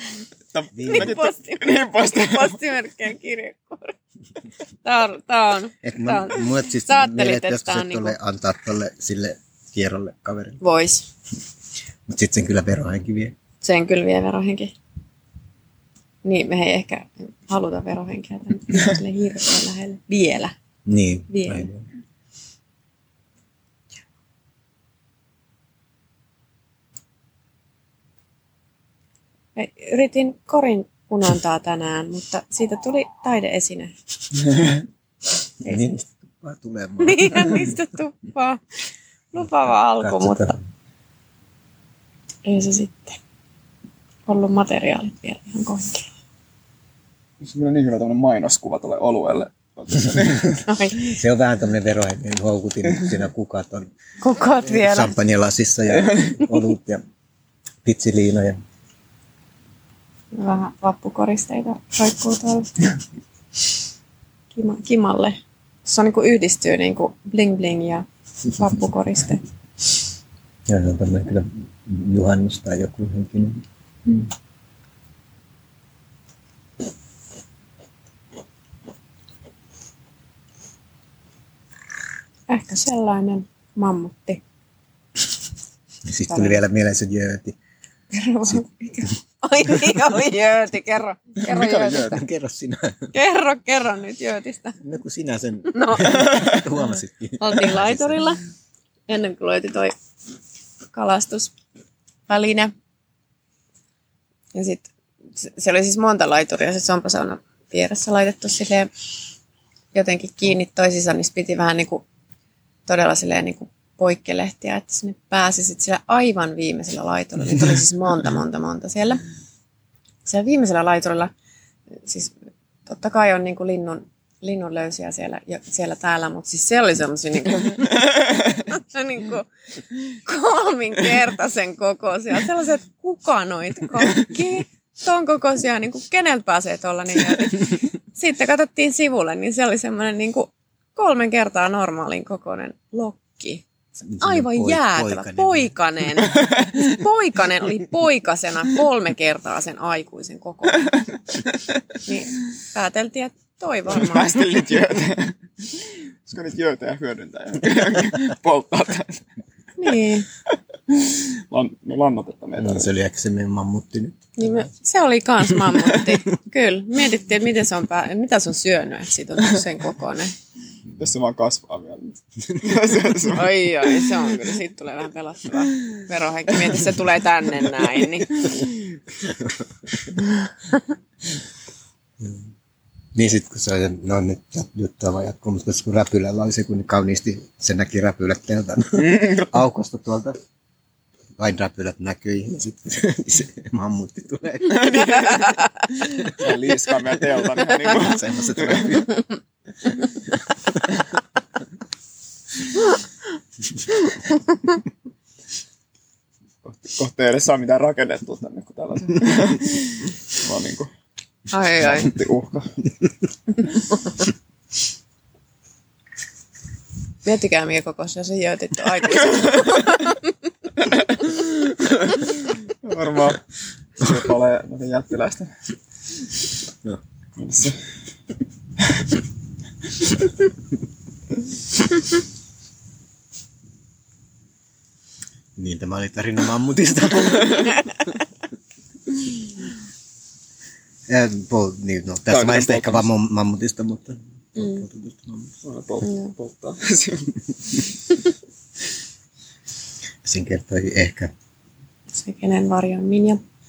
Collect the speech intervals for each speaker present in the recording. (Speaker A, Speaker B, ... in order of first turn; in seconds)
Speaker A: 0.5-2.6, 34.5-34.8, 47.4-50.7, 52.9-53.1, 55.9-56.3, 91.4-92.2, 153.9-159.2, 160.9-162.9, 171.0-174.2, 189.0-189.6, 194.7-199.1, 206.6-210.9, 211.8-213.9, 219.5-219.9, 220.8-223.4, 224.0-225.5, 227.4-227.8, 228.8-229.1, 242.3-243.1, 245.6-247.8
Speaker B: 0.7-1.2, 5.8-10.6, 12.1-13.3, 20.9-21.9, 35.6-37.8, 39.4-40.6, 51.0-53.9, 54.6-57.0, 57.8-58.6, 70.7-73.6, 86.1-87.5, 91.9-93.1, 94.8-98.3, 144.0-145.7, 162.6-164.7, 165.6-166.1, 178.7-179.7, 182.2-182.5, 183.1-190.4, 191.4-195.0, 197.8-199.2, 200.4-200.8, 235.6-238.1, 241.1-245.5, 250.2-251.3
Speaker C: 0.8-3.9, 4.8-8.2, 10.6-11.1, 13.6-14.7, 16.2-20.5, 21.3-21.7, 29.5-33.9, 35.6-36.0, 37.0-38.6, 39.3-40.6, 42.4-43.2, 44.2-46.1, 50.7-51.2, 54.2-55.1, 60.3-62.9, 64.5-69.4, 82.5-84.4, 86.3-86.6, 88.1-92.2, 93.1-94.8, 95.7-96.7, 97.4-98.4, 99.1-99.9, 100.9-101.5, 102.3-102.7, 104.5-108.9, 109.9-112.0, 112.8-119.2, 120.2-121.3, 122.0-122.3, 122.8-143.7, 144.2-151.0, 152.0-154.5, 159.8-160.3, 164.4-170.3, 173.2-178.7, 204.1-204.4, 211.5-212.1, 217.2-220.3, 244.6-244.8, 246.0-246.3, 252.1-253.4